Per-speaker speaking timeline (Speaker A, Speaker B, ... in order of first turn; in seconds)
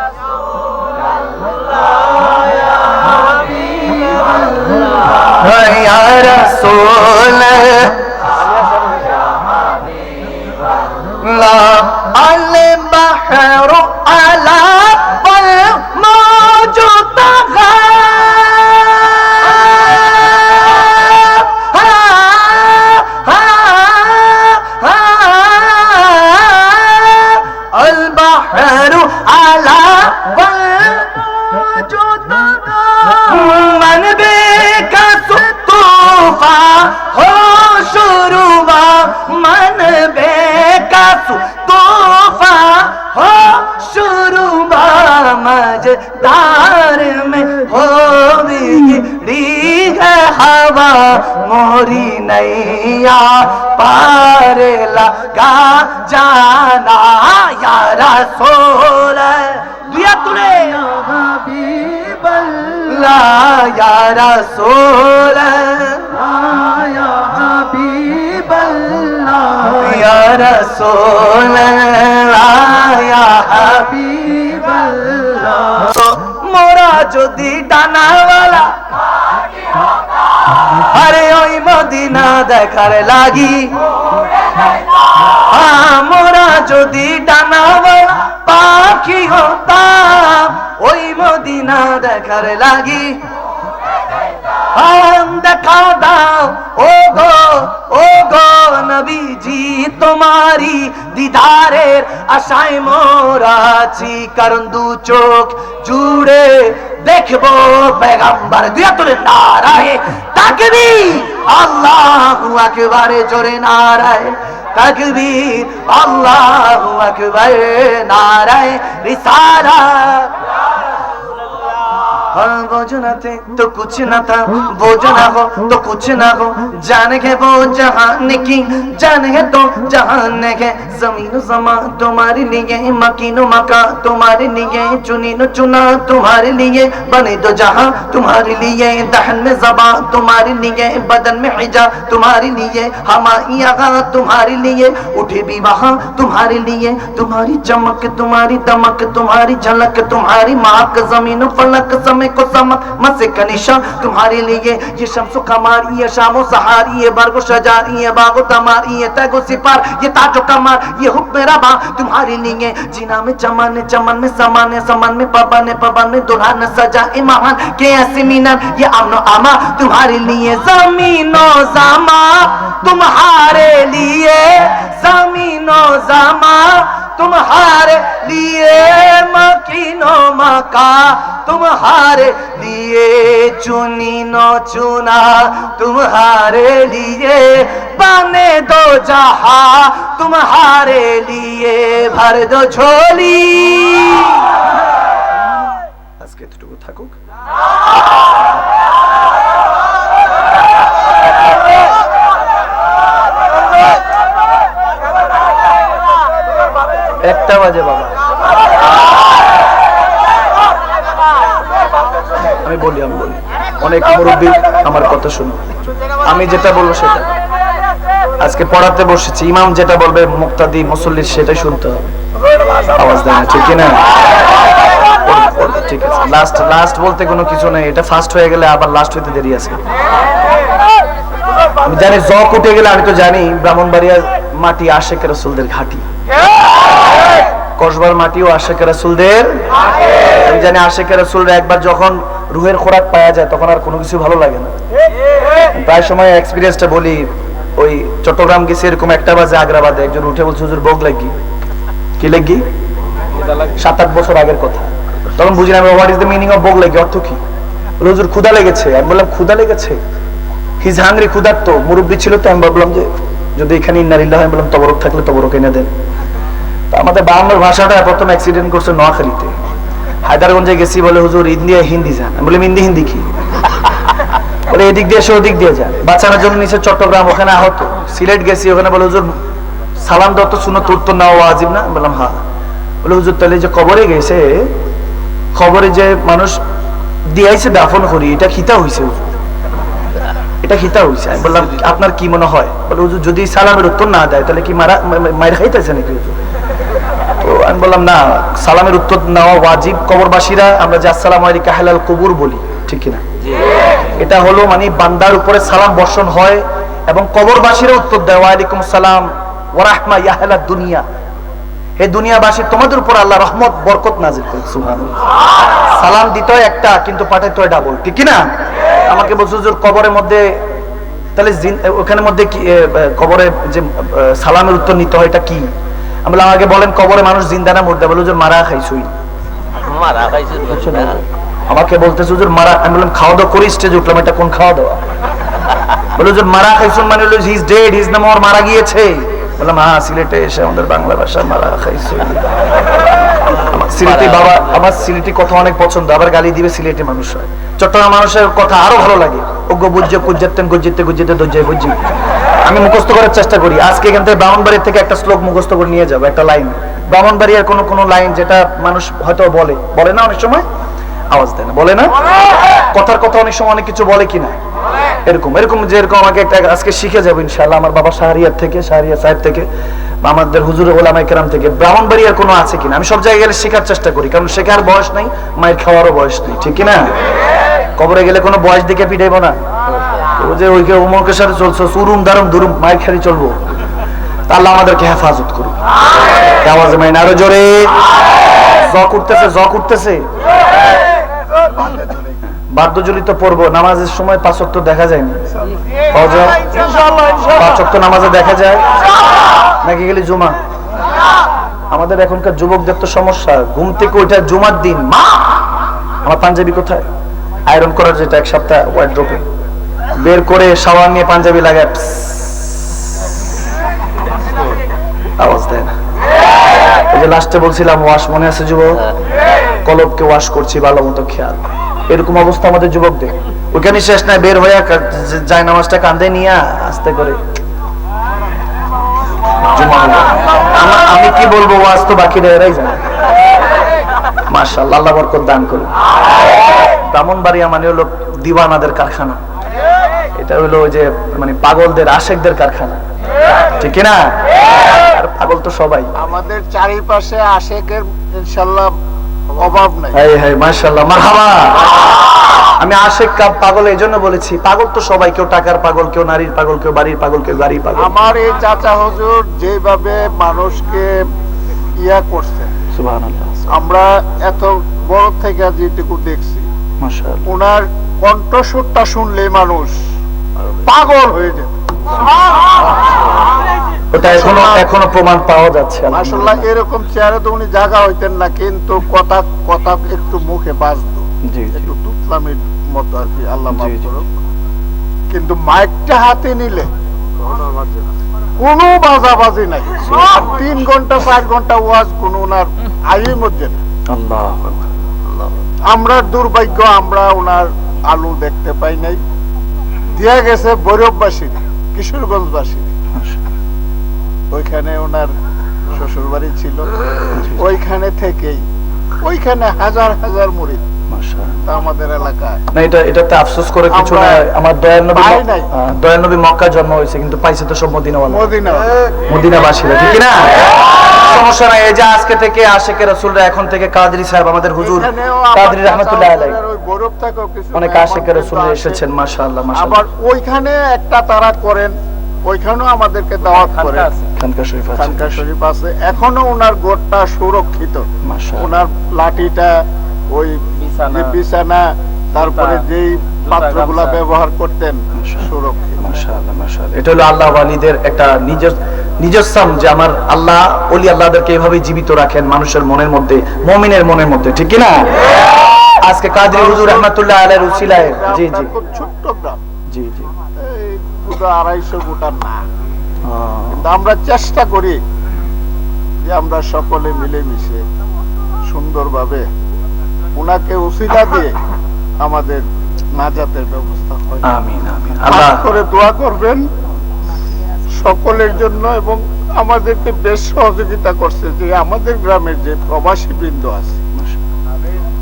Speaker A: 3.5-8.0, 11.2-78.8, 80.5-83.7, 85.3-93.2, 94.7-120.3, 122.3-194.5, 196.2-197.1, 207.2-208.1, 212.6-215.7, 216.2-217.3, 218.4-222.1, 222.9-224.0, 225.2-229.8, 231.8-236.1, 237.8-239.6, 240.4-244.7, 245.7-251.3, 252.2-252.6, 253.8-257.4, 258.0-260.0, 260.8-265.9, 266.9-269.5, 270.2-273.3, 274.7-279.3, 280.0-282.4, 283.0-284.7, 285.6-286.6, 287.3-289.3, 290.6-296.4, 297.4-303.2, 304.2-311.1, 312.0-315.2, 315.9-318.4, 319.1-320.4, 321.4-325.7, 326.2-329.1, 330.6-335.0, 336.1-342.4, 343.5-352.1, 352.6-360.7, 361.3-362.1, 362.9-364.6, 365.2-369.7, 370.2-377.1, 378.0-379.6, 380.4-383.6, 384.5-385.8, 386.6-387.9, 388.8-390.2, 392.7-395.4, 396.1-396.7, 397.5-398.8, 399.8-400.6, 401.9-405.7, 406.2-407.0, 407.7-409.4, 410.2-413.3, 415.4-415.9, 417.1-419.0, 419.9-427.4, 429.7-433.0, 434.5-435.9, 437.1-439.4, 440.4-443.0, 443.8-444.3, 445.0-446.1, 450.1-451.8, 452.8-458.1, 462.9-463.7, 467.0-467.5, 474.1-476.7, 481.5-481.9, 483.7-484.1, 490.0-490.6, 494.1-494.9, 507.3-507.7, 511.1-511.6, 512.7-518.5, 519.3-520.6, 521.1-526.6, 527.7-530.1, 534.4-535.4, 538.2-538.7, 545.2-545.5, 546.0-555.1, 555.9-558.7, 559.9-560.3, 563.2-563.9, 574.4-575.6
Speaker B: 329.9-331.2, 344.2-344.6, 543.5-544.0
Speaker C: 396.8-397.5, 446.2-448.9, 449.6-450.2, 458.0-461.1, 462.0-462.8, 463.7-466.7, 467.5-469.9, 470.8-471.8, 474.2-474.9, 476.1-484.3, 485.3-486.9, 488.6-493.8, 495.9-499.2, 500.1-502.9, 504.5-505.3, 505.9-506.9, 507.5-508.6, 509.2-510.8, 511.6-512.6, 513.9-514.4, 515.1-515.7, 518.3-518.9, 524.8-529.0, 529.8-531.9, 532.5-534.1, 535.0-538.0, 538.6-539.8, 540.3-546.0, 556.4-559.6, 560.6-562.6, 563.7-565.0, 566.3-567.8, 568.7-569.5, 570.4-571.5, 572.2-572.6, 573.2-574.5, 575.3-576.6, 577.9-584.0